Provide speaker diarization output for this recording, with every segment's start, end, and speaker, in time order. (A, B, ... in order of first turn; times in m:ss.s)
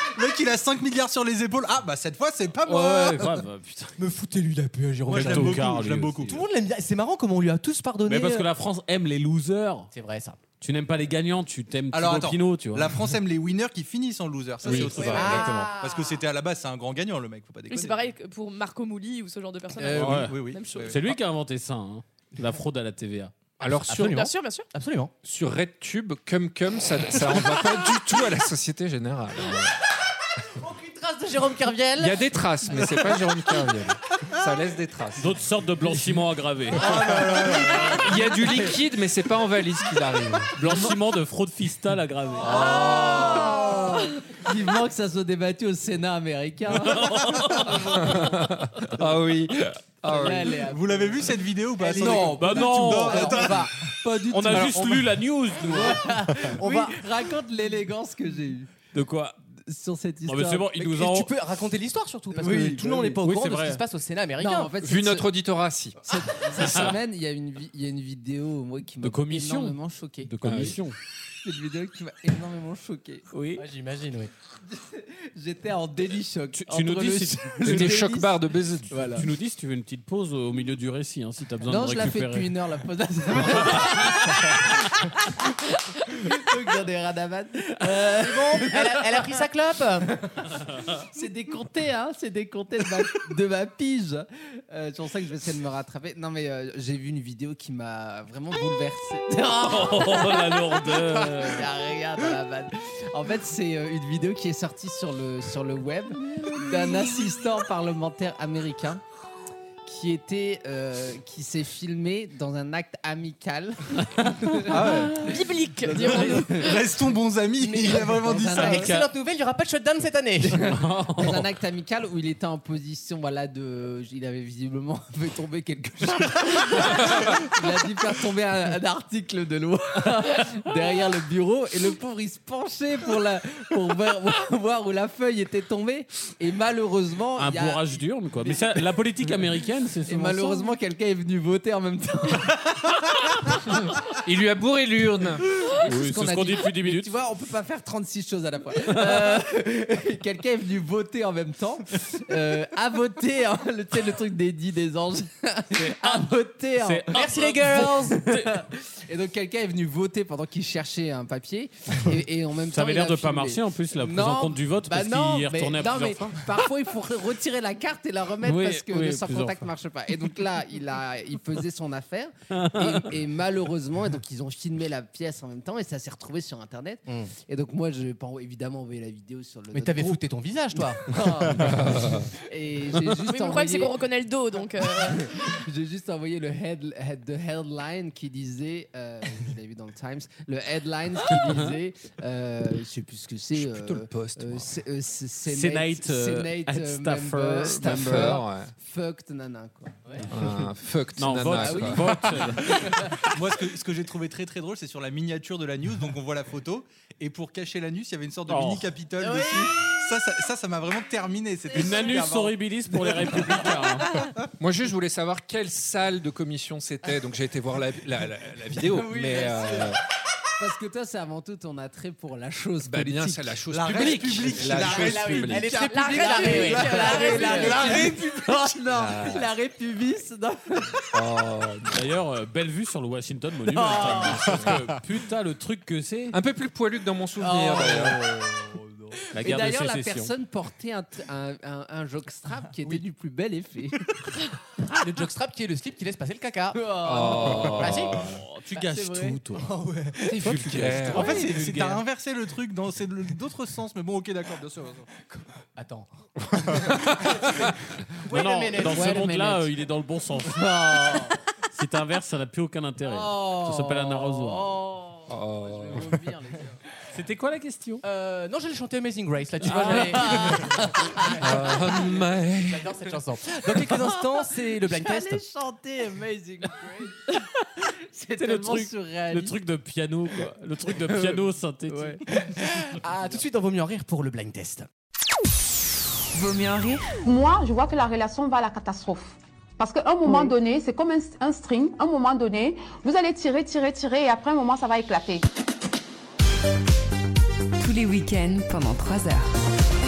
0:00.2-0:03.4 A
0:02.6-0:04.0 B
0:04.0-0:05.7 C
0:05.1-0:06.4 A
0:05.1-0:06.4 B
0:06.3-0:08.5 C
0:08.1-0:09.9 B
0:09.9-0:10.4 C
0:10.6-0:13.0 B
0:11.9-0:18.1 A
0:14.6-0:15.7 B
0:14.7-0:16.2 C
0:17.7-0:21.0 D
0:19.8-0:21.1 A
0:19.8-0:23.3 B
0:23.6-0:24.2 E
0:23.9-0:25.1 C
0:24.0-0:24.7 D
0:25.2-0:29.8 E
0:30.6-0:33.1 C
0:32.0-0:35.3 E
0:35.2-0:38.1 B
0:36.9-0:37.9 A
0:37.9-0:40.9 E
0:40.6-0:42.6 B
0:42.4-0:43.6 E
0:42.9-0:48.2 F
0:46.8-0:47.9 B
0:48.0-0:50.6 E
0:50.0-0:51.4 F
0:50.6-0:53.7 A
0:51.8-0:53.8 C
0:51.9-0:54.8 F
0:52.1-0:53.5 B
0:54.3-0:55.1 C
0:54.3-0:56.1 B
0:55.7-0:58.7 F
0:55.7-0:57.0 C
0:58.9-0:59.4 B
0:59.6-1:00.8 F
1:00.3-1:01.3 B
1:00.8-1:04.8 C
1:02.3-1:03.2 F
1:03.1-1:03.8 B
1:04.4-1:05.3 F
1:04.8-1:06.0 E
1:06.1-1:10.6 F
1:06.6-1:07.0 B
1:09.0-1:11.0 B
1:10.4-1:10.8 E
1:11.4-1:13.3 F
1:13.3-1:13.6 B
1:13.6-1:14.3 C
1:14.6-1:19.3 F
1:16.5-1:17.9 B
1:17.6-1:18.9 E
1:19.2-1:22.6 B
1:21.6-1:24.6 F
1:23.4-1:24.1 B
1:26.0-1:29.4 F
1:27.9-1:30.1 C
1:30.1-1:30.5 F
1:31.0-1:49.0 F
1:39.6-1:41.7 B
1:49.8-1:54.7 F
1:54.7-1:55.3 A
1:55.1-1:56.8 D
1:55.8-1:56.8 F
1:55.9-1:58.9 A
1:57.6-2:00.7 C
1:57.9-1:59.1 F
2:00.4-2:18.9 F
2:00.6-2:01.5 B
2:17.4-2:20.7 B
2:20.1-2:23.0 F
2:24.2-2:25.4 E
2:25.8-2:27.1 B
2:25.8-3:00.2 F
2:28.9-2:29.4 B
2:35.8-2:38.6 B
2:37.1-2:38.1 C
2:42.7-2:46.4 B
2:48.4-2:49.7 B
2:52.5-2:53.1 B
2:57.1-2:57.3 C
2:59.7-3:01.1 C
3:00.8-3:04.0 F
3:01.8-3:02.2 E
3:03.2-3:05.4 D
3:04.8-3:20.2 F
3:13.6-3:14.7 E
3:15.5-3:18.4 B
3:17.8-3:18.7 E
3:20.3-3:22.1 E
3:21.2-3:23.1 B
3:21.5-3:23.0 F
3:23.3-3:33.6 A
3:28.5-3:28.9 B
3:29.3-3:29.8 F
3:31.7-3:34.1 B
3:34.6-3:40.0 E
3:38.9-3:39.8 F
3:40.6-3:43.5 F
3:42.8-3:45.8 E
3:43.7-3:47.9 A
3:43.9-3:48.1 C
3:45.8-3:48.1 D
3:46.2-3:51.0 F
3:48.9-3:49.5 E
3:51.1-3:52.0 E
3:51.9-3:56.4 B
3:53.7-3:54.5 F
3:56.3-3:58.2 E
3:57.4-4:04.0 F
3:59.3-4:00.3 B
4:04.9-4:08.3 C
4:06.7-4:08.0 F
4:07.0-4:08.4 E
4:08.2-4:09.7 B
4:08.8-4:09.4 F
4:09.5-4:11.5 C
4:10.3-4:12.0 B
4:10.4-4:11.4 E
4:11.1-4:15.1 A
4:15.3-4:17.7 C
4:17.0-4:17.4 E
4:18.2-4:19.4 C
4:18.3-4:24.8 B
4:18.7-4:19.7 F
4:20.4-4:21.4 F
4:23.0-4:26.8 F
4:25.3-4:26.1 E
4:27.1-4:28.0 B
4:28.0-4:35.4 C
4:29.6-4:30.4 B
4:29.9-4:31.2 F
4:31.4-4:32.9 E
4:34.0-4:37.4 F
4:38.1-4:39.6 F
4:38.4-4:42.2 B
4:41.0-4:42.2 F
4:42.4-4:44.9 C
4:46.3-4:47.2 G
4:47.2-4:55.4 H
4:57.8-4:59.6 G